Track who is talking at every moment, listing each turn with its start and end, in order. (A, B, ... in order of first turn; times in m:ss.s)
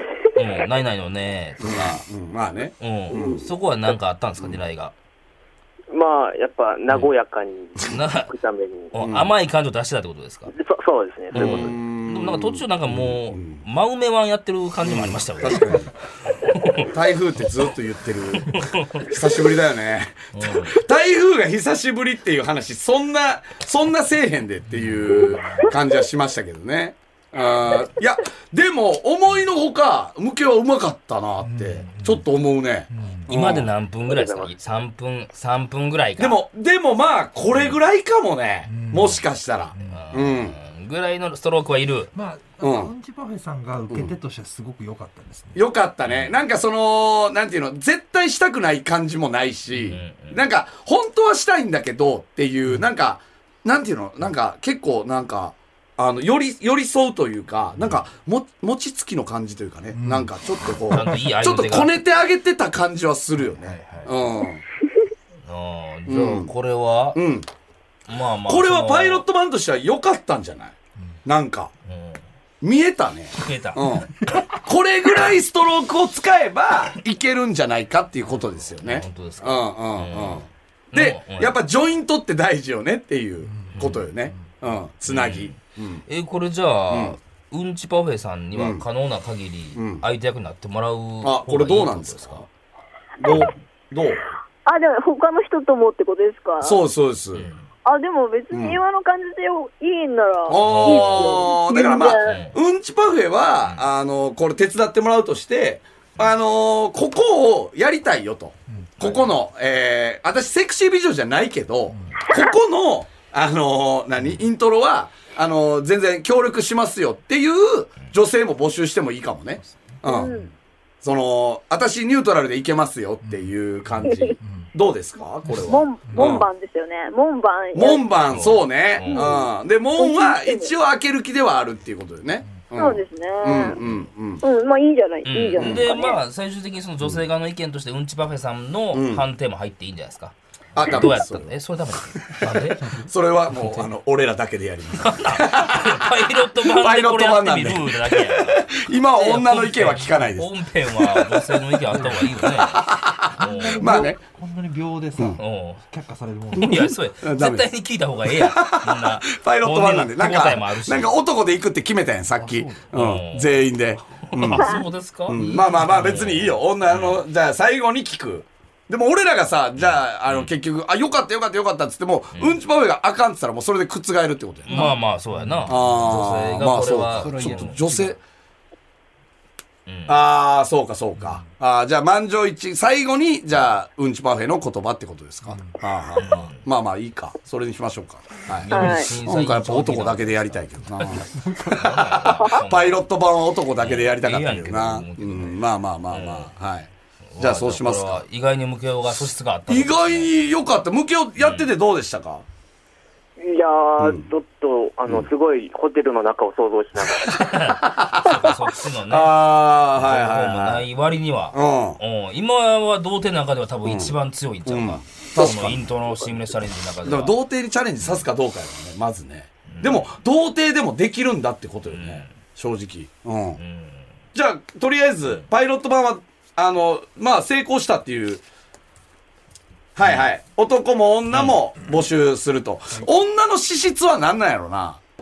0:00.3-0:02.0 A
0:01.6-0:03.5 B
0:02.8-0:04.9 A
0:05.9-0:08.9 C
0:07.9-0:08.3 A
0:08.9-0:10.5 A
0:09.0-0:09.3 B
0:10.5-0:11.8 C
0:11.3-0:16.9 A
0:11.3-0:13.6 B
0:14.8-0:15.9 B
0:16.9-0:33.7 B
0:18.4-0:19.1 A
0:20.3-0:20.8 A
0:24.7-0:25.3 D
0:25.0-0:25.6 A
0:31.4-0:32.3 D
0:32.9-0:33.3 D
0:33.3-0:36.4 A
0:34.1-0:34.5 C
0:36.2-0:40.6 B
0:37.5-0:37.8 A
0:38.6-0:40.1 D
0:39.8-0:42.1 A
0:42.1-0:45.7 D
0:42.6-0:42.9 B
0:43.9-0:44.1 B
0:45.5-1:04.6 B
0:46.0-0:46.4 A
0:49.7-0:50.4 A
0:59.9-1:01.2 D
1:00.9-1:01.9 A
1:03.4-1:04.1 A
1:05.4-1:07.2 A
1:06.1-1:06.5 B
1:07.1-1:07.5 B
1:08.1-1:09.2 A
1:08.5-1:10.7 B
1:11.2-1:11.7 B
1:11.8-1:12.2 A
1:12.6-1:26.0 B
1:13.3-1:14.0 A
1:18.2-1:21.6 A
1:23.4-1:24.6 D
1:23.7-1:24.0 A
1:25.0-1:32.4 A
1:26.9-1:27.2 B
1:28.5-1:28.8 B
1:29.7-1:30.0 B
1:31.2-1:32.5 B
1:33.2-1:34.3 B
1:34.6-1:36.8 E
1:36.6-1:37.5 B
1:37.3-1:37.6 A
1:37.8-1:42.4 E
1:38.5-1:38.8 B
1:40.5-2:00.3 B
1:40.6-1:41.5 A
1:42.2-1:42.6 A
1:49.0-1:49.3 A
1:51.9-1:52.2 D
1:59.6-2:00.4 D
2:00.0-2:00.5 E
2:01.0-2:06.5 B
2:03.2-2:04.7 D
2:04.0-2:04.3 E
2:05.4-2:06.4 D
2:05.6-2:08.1 E
2:07.7-2:14.4 B
2:08.3-2:09.3 A
2:09.1-2:10.7 E
2:12.8-2:13.8 E
2:14.4-2:16.2 E
2:15.2-2:22.9 A
2:15.6-2:15.9 B
2:18.9-2:19.2 B
2:20.7-2:21.5 B
2:22.5-2:23.1 D
2:23.0-2:26.1 B
2:25.0-2:32.8 A
2:26.6-2:31.5 B
2:31.9-2:32.6 D
2:32.2-2:34.2 B
2:33.3-2:36.8 D
2:33.4-2:33.8 A
2:35.4-2:35.8 A
2:36.6-2:37.7 B
2:36.6-2:41.2 A
2:38.2-2:55.0 B
2:42.3-2:42.9 D
2:42.9-2:43.6 A
2:44.3-2:47.2 A
2:45.7-2:46.0 D
2:49.7-2:50.5 A
2:52.3-2:52.6 A
2:54.6-2:57.8 A
2:54.7-2:56.2 D
2:55.7-2:58.2 B
2:57.1-2:58.2 D
2:59.8-3:00.2 A
3:00.1-3:16.9 B
3:01.1-3:01.5 D
3:05.4-3:06.5 D
3:06.2-3:06.6 A
3:08.6-3:13.0 A
3:08.7-3:09.1 E
3:11.3-3:11.8 D
3:13.8-3:16.5 A
3:17.3-3:20.3 A
3:17.4-3:18.2 B
3:19.7-3:22.4 B
3:21.4-3:21.7 A
3:23.4-3:27.4 C
3:24.0-3:24.3 B
3:27.4-3:29.4 A
3:27.8-3:28.5 B
3:29.0-3:30.9 B
3:29.9-3:37.3 A
3:31.5-3:32.0 B
3:33.8-3:35.9 B
3:37.0-3:43.6 B
3:39.7-3:40.1 A
3:41.9-3:42.3 A
3:43.6-3:44.1 A
3:44.3-3:48.4 B
3:50.0-3:55.0 B
3:50.0-3:50.3 A
3:51.3-3:51.6 A